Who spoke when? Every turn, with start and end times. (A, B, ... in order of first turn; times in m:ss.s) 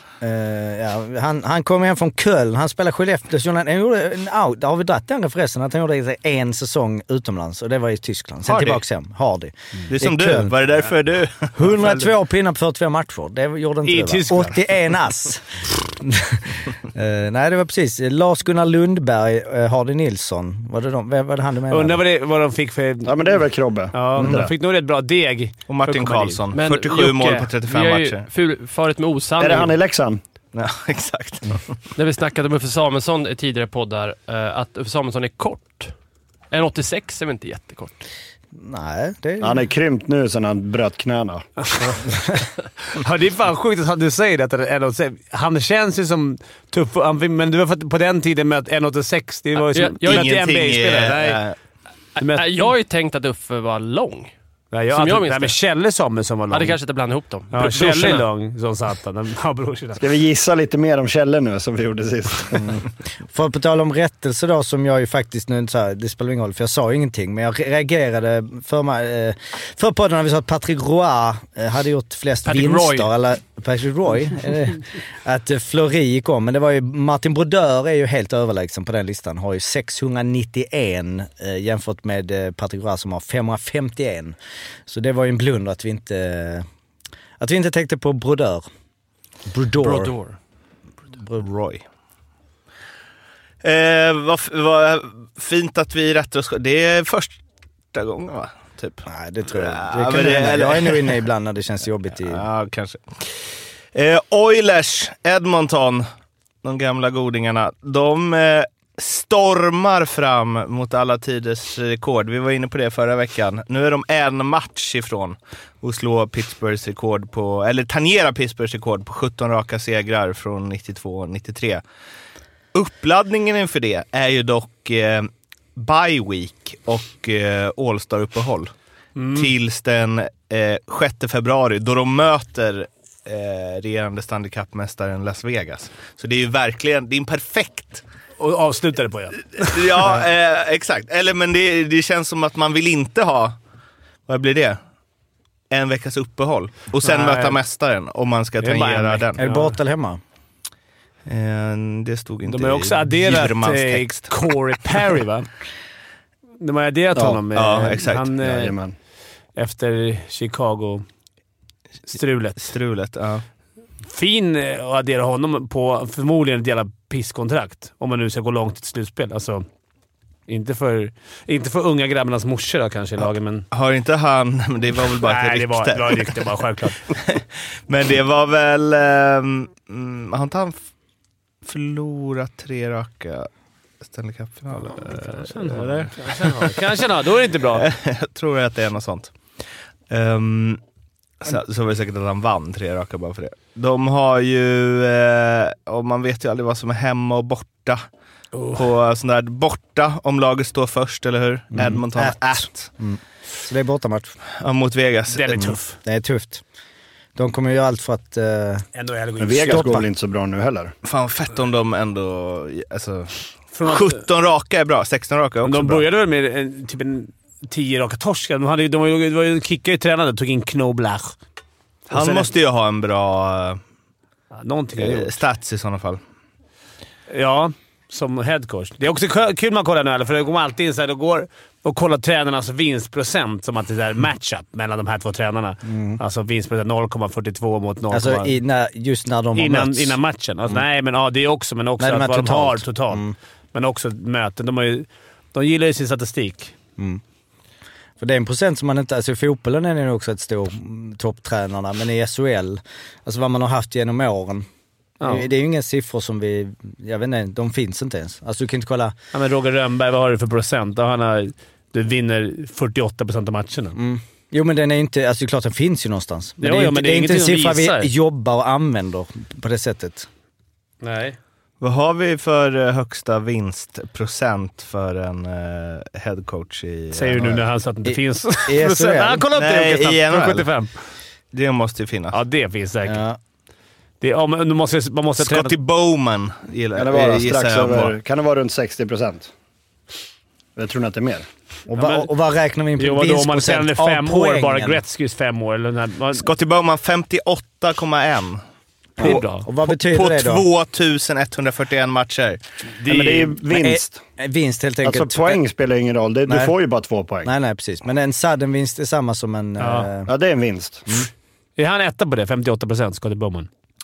0:00.2-0:10.6 A
0:08.4-0:08.8 B
0:09.9-0:12.1 B
0:11.5-0:22.0 A
0:13.8-0:14.6 C
0:21.7-0:26.4 C
0:23.0-0:24.5 D
0:24.2-0:24.4 A
0:25.7-0:28.2 B
0:26.5-0:29.7 E
0:29.4-0:30.2 D
0:30.5-0:31.6 B
0:32.0-0:35.9 E
0:36.5-0:38.0 E
0:38.6-0:39.6 A
0:39.4-0:41.4 D
0:42.9-0:51.4 C
0:49.7-0:50.3 E
0:50.0-0:51.6 B
0:52.2-0:52.7 C
0:52.2-0:54.3 E
0:54.7-0:56.8 C
0:54.9-0:55.6 E
0:56.5-0:58.3 E
0:57.5-1:00.0 C
1:00.0-1:02.7 D
1:02.5-1:24.3 A
1:12.4-1:13.1 E
1:24.9-1:26.6 A
1:27.4-1:28.6 A
1:29.5-1:30.1 A
1:29.8-1:30.4 E
1:31.2-1:31.8 B
1:33.6-1:37.4 B
1:37.9-1:41.2 B
1:39.0-1:42.4 A
1:42.2-1:46.1 B
1:46.6-2:01.8 B
2:02.7-2:08.7 B
2:09.2-2:09.5 C
2:09.3-2:18.0 B
2:18.4-2:20.2 C
2:19.6-2:23.6 B
2:24.3-2:24.8 B
2:25.7-2:29.4 B
2:27.0-2:27.6 C
2:28.6-2:29.8 C
2:29.4-2:30.2 A
2:31.2-2:34.3 B
2:32.5-2:35.5 C
2:36.6-2:38.8 C
2:37.1-2:37.4 D
2:37.5-2:38.3 B
2:38.4-2:38.9 D
2:39.6-2:41.0 C
2:42.1-2:42.7 C
2:42.6-2:43.4 B
2:44.0-2:49.6 C
2:50.5-2:53.6 C
2:53.7-2:56.5 B
2:55.2-2:57.0 C
2:57.1-3:00.8 B
3:01.6-3:03.5 B
3:04.0-3:06.9 B
3:04.9-3:07.9 C
3:07.6-3:09.3 B
3:10.1-3:10.8 B
3:11.4-3:18.0 B
3:18.5-3:18.8 C
3:18.7-3:22.9 B
3:21.7-3:24.4 A
3:24.6-3:25.8 B
3:25.3-3:26.0 C
3:26.0-3:26.6 A
3:27.4-3:28.8 A
3:28.9-3:30.0 C
3:29.4-3:30.9 D
3:29.6-3:30.0 A
3:31.0-3:36.0 B
3:33.7-3:34.2 C
3:35.6-3:41.3 C
3:42.1-3:42.5 C
3:42.1-3:43.8 B
3:44.5-3:45.4 C
3:45.0-3:46.2 B
3:47.3-3:58.6 C
3:55.8-3:56.2 A
3:58.1-4:00.2 A
3:59.5-4:03.2 C
4:02.0-4:03.3 A
4:03.7-4:06.7 C
4:08.2-4:14.6 A
4:15.2-4:15.5 C
4:15.2-4:19.1 A
4:19.3-4:24.0 C
4:23.9-4:30.3 A
4:26.6-4:28.1 C
4:31.0-4:31.4 C
4:31.8-4:37.6 B
4:37.1-4:40.9 C
4:38.0-4:39.4 A
4:39.5-4:40.7 B
4:41.5-4:42.4 B
4:42.3-4:43.2 C
4:43.0-4:43.4 A
4:44.2-4:45.8 C
4:45.4-4:48.1 B
4:47.0-4:49.5 D
4:50.8-4:51.4 D
4:51.9-4:55.0 A
4:51.9-4:52.3 C
4:53.0-4:56.4 C
4:56.3-4:58.6 B
4:59.2-5:00.6 A
4:59.2-4:59.7 C
4:59.2-5:02.6 B
5:03.0-5:03.6 C
5:03.0-5:04.2 D
5:03.7-5:05.6 A
5:05.0-5:07.5 D
5:06.5-5:06.7 A
5:07.4-5:10.3 A
5:09.8-5:10.1 C
5:10.3-5:11.1 D
5:11.8-5:13.7 C